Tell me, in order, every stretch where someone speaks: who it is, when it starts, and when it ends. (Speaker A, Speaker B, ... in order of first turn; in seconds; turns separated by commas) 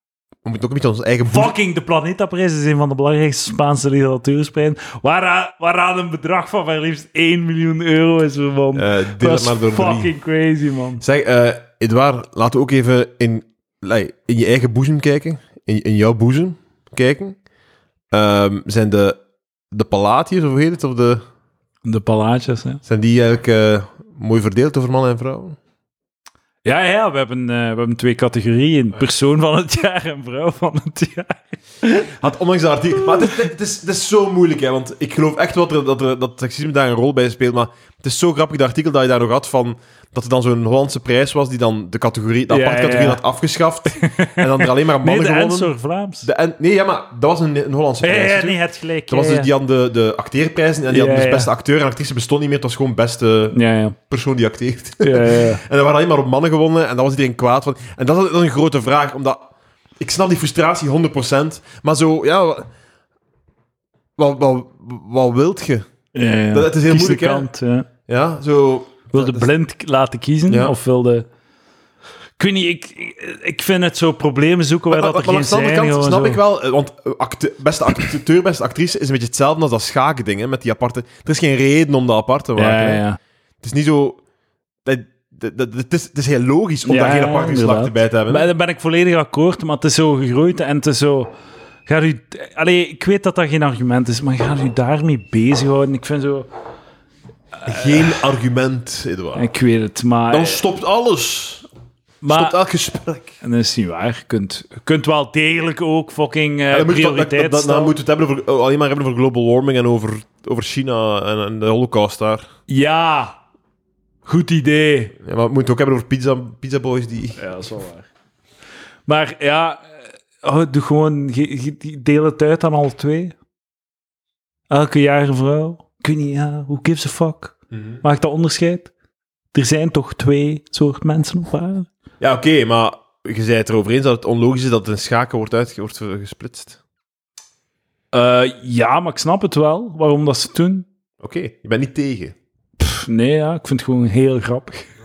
Speaker A: 0.4-1.5, Speaker B: 1.2-11.0, Speaker A: 8.7-10.1, Speaker A: 11.0-17.4, Speaker A: 18.1-19.2, Speaker A: 19.7-21.2, Speaker B: 21.8-22.8, Speaker A: 22.9-25.6, Speaker B: 26.6-32.1, Speaker A: 32.1-45.7, Speaker B: 42.5-43.2, Speaker B: 43.9-46.3, Speaker A: 46.2-53.6, Speaker B: 48.0-49.5, Speaker B: 50.9-51.5, Speaker B: 53.5-54.0, Speaker A: 54.1-59.5, Speaker B: 55.0-55.6, Speaker A: 60.0-62.7, Speaker A: 64.2-65.9, Speaker B: 66.1-67.9, Speaker A: 66.5-67.5, Speaker A: 68.1-69.5, Speaker B: 69.1-71.3, Speaker A: 70.5-70.8, Speaker B: 72.4-76.4, Speaker A: 74.9-83.0, Speaker B: 82.5-83.2, Speaker A: 83.6-84.2, Speaker A: 84.8-88.5, Speaker B: 86.8-91.3, Speaker B: 91.8-96.5, Speaker A: 97.6-99.4, Speaker B: 97.7-98.1, Speaker B: 99.3-100.6, Speaker A: 100.3-101.6, Speaker B: 102.2-102.6, Speaker A: 102.3-103.3, Speaker B: 103.4-107.9, Speaker A: 106.7-112.5, Speaker B: 112.7-113.4, Speaker B: 114.2-115.1, Speaker A: 115.2-117.4, Speaker B: 117.4-118.1, Speaker B: 119.1-123.3, Speaker B: 124.7-128.9, Speaker A: 127.7-128.0, Speaker B: 129.5-131.9, Speaker A: 132.2-136.8, Speaker B: 138.1-140.9, Speaker A: 141.2-142.3, Speaker B: 142.8-144.9